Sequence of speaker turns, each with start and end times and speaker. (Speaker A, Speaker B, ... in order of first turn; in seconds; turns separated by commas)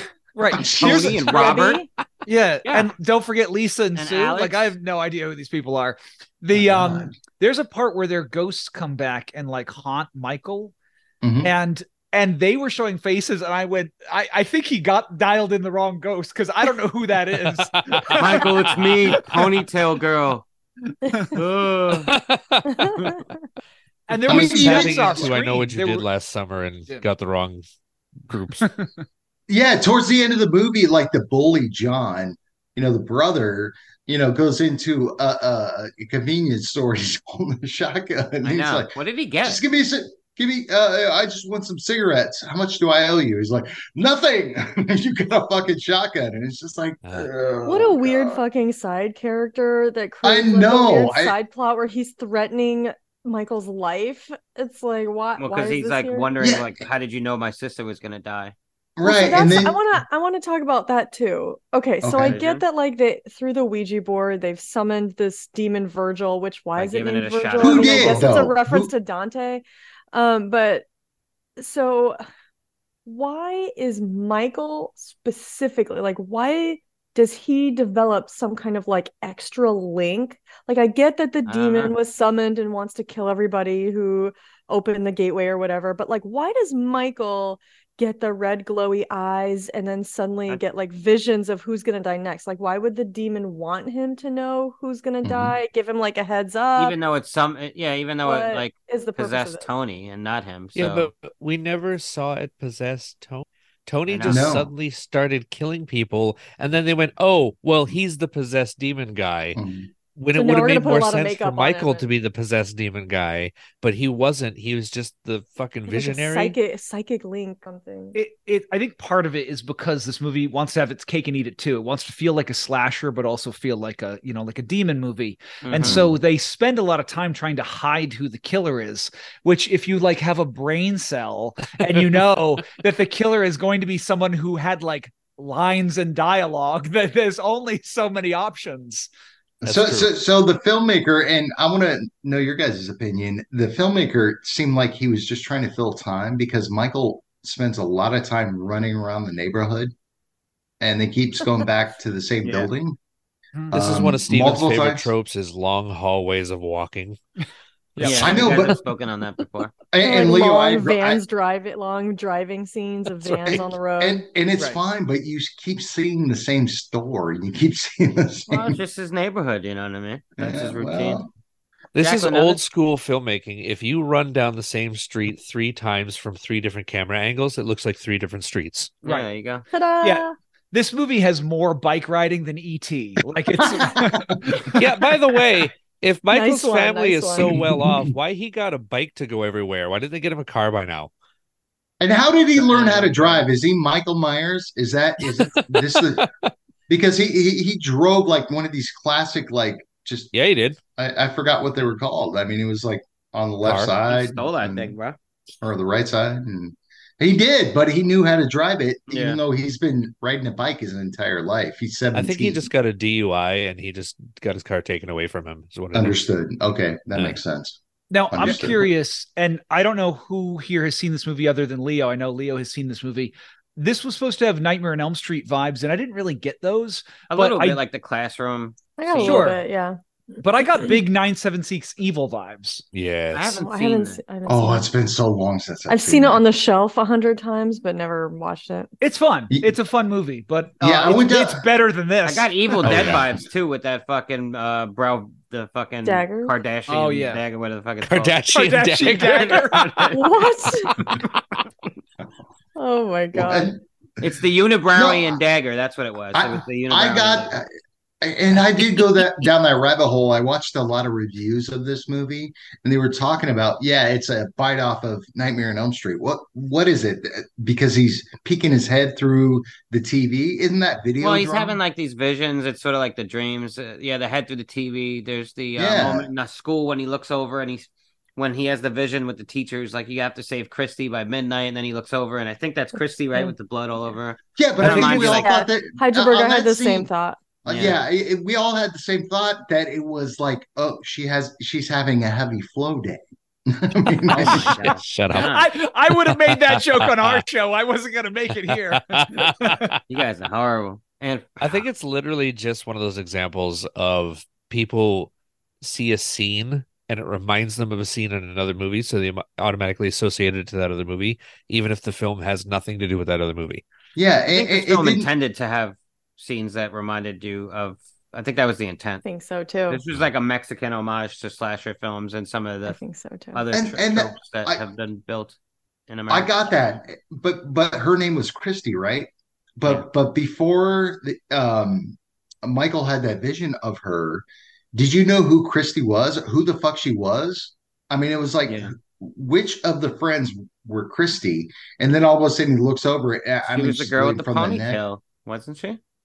Speaker A: 0.3-1.7, Speaker B: 0.6-1.4, Speaker C: 0.7-1.8, Speaker D: 1.3-1.9, Speaker A: 2.2-10.7, Speaker C: 2.6-2.9, Speaker C: 3.9-4.7, Speaker B: 6.5-7.1, Speaker B: 11.2-11.5, Speaker A: 11.4-18.4, Speaker E: 17.4-18.5, Speaker C: 18.1-20.4, Speaker A: 20.9-21.3, Speaker C: 21.3-22.1, Speaker E: 22.0-22.9, Speaker D: 22.7-23.2, Speaker A: 24.1-26.1, Speaker B: 24.3-25.4, Speaker E: 24.3-27.6, Speaker E: 28.2-28.7, Speaker A: 28.6-29.0, Speaker B: 29.5-48.4, Speaker C: 38.4-39.6, Speaker E: 47.0-47.3, Speaker D: 47.6-56.3, Speaker B: 50.2-51.4, Speaker C: 55.4-58.5, Speaker B: 56.4-56.7, Speaker B: 59.0-59.8, Speaker D: 59.0-70.8, Speaker B: 62.0-62.4, Speaker C: 62.2-62.6, Speaker C: 66.7-68.3, Speaker B: 67.6-68.9, Speaker D: 71.6-72.2, Speaker D: 73.0-97.0, Speaker C: 81.5-81.9, Speaker B: 95.2-95.6, Speaker C: 96.8-101.1, Speaker D: 98.2-99.7, Speaker E: 100.8-109.6, Speaker C: 104.1-104.5, Speaker B: 104.2-104.7, Speaker B: 109.5-109.9, Speaker E: 110.2-116.6, Speaker D: 110.3-112.1, Speaker D: 115.9-118.2, Speaker A: 118.1-139.1, Speaker C: 125.6-126.0, Speaker B: 125.8-126.2, Speaker E: 131.9-132.2, Speaker B: 139.6-149.9, Speaker E: 139.6-140.1, Speaker B: 150.8-153.0, Speaker C: 152.4-152.7, Speaker B: 153.7-155.1, Speaker E: 153.7-157.2, Speaker A: 158.0-158.6, Speaker E: 158.0-158.3, Speaker C: 158.0-159.7, Speaker B: 158.1-158.8, Speaker B: 159.9-161.2, Speaker D: 160.0-164.2, Speaker E: 163.2-163.6, Speaker B: 163.4-168.8, Speaker C: 168.5-171.2, Speaker B: 170.4-171.3, Speaker E: 171.9-178.9, Speaker C: 172.0-172.6, Speaker C: 179.0-179.7, Speaker D: 179.7-180.3, Speaker A: 180.0-185.1, Speaker B: 183.6-184.4, Speaker E: 184.7-191.1, Speaker D: 186.3-187.6, Speaker B: 187.4-188.2, Speaker B: 192.0-196.2, Speaker C: 192.7-193.4, Speaker E: 195.3-196.3, Speaker B: 196.9-200.3, Speaker E: 200.3-200.8, Speaker B: 200.9-204.9, Speaker E: 203.6-203.9, Speaker C: 204.1-205.2, Speaker B: 205.6-212.7, Speaker C: 209.1-209.4, Speaker E: 212.1-216.2, Speaker B: 215.9-217.8, Speaker A: 218.1-227.8, Speaker B: 218.3-218.9, Speaker C: 227.3-229.5, Speaker D: 229.0-230.0, Speaker A: 229.2-229.6, Speaker A: 230.4-232.8, Speaker E: 232.9-233.6, Speaker C: 233.3-234.2, Speaker D: 233.5-234.9, Speaker B: 234.5-236.4, Speaker D: 235.9-238.9, Speaker A: 239.0-242.5, Speaker B: 240.8-241.6, Speaker C: 242.2-248.3, Speaker E: 242.8-243.2, Speaker B: 242.9-243.2, Speaker D: 246.0-246.5, Speaker A: 246.9-247.4, Speaker E: 248.0-251.6, Speaker A: 248.5-250.0, Speaker C: 249.2-250.2, Speaker D: 250.1-250.9, Speaker D: 252.7-253.7, Speaker B: 253.3-253.8, Speaker C: 254.2-257.5, Speaker B: 254.9-255.4, Speaker B: 256.3-257.7, Speaker B: 258.2-271.8, Speaker C: 271.2-285.5, Speaker B: 275.8-276.3, Speaker B: 284.6-287.1, Speaker E: 284.9-285.2, Speaker D: 285.1-287.4, Speaker B: 287.6-294.8, Speaker C: 287.7-288.0, Speaker C: 294.3-295.7, Speaker E: 294.4-297.4, Speaker A: 294.5-299.9, Speaker E: 298.6-300.0, Speaker C: 300.1-301.8, Speaker E: 301.6-313.8, Speaker B: 314.1-315.3, Speaker C: 314.5-319.2, Speaker D: 319.2-320.0, Speaker C: 319.9-323.0, Speaker D: 322.9-323.6, Speaker C: 323.5-325.6, Speaker B: 323.7-324.8, Speaker C: 326.1-326.5, Speaker B: 326.3-345.0, Speaker C: 338.7-338.9, Speaker C: 343.7-346.0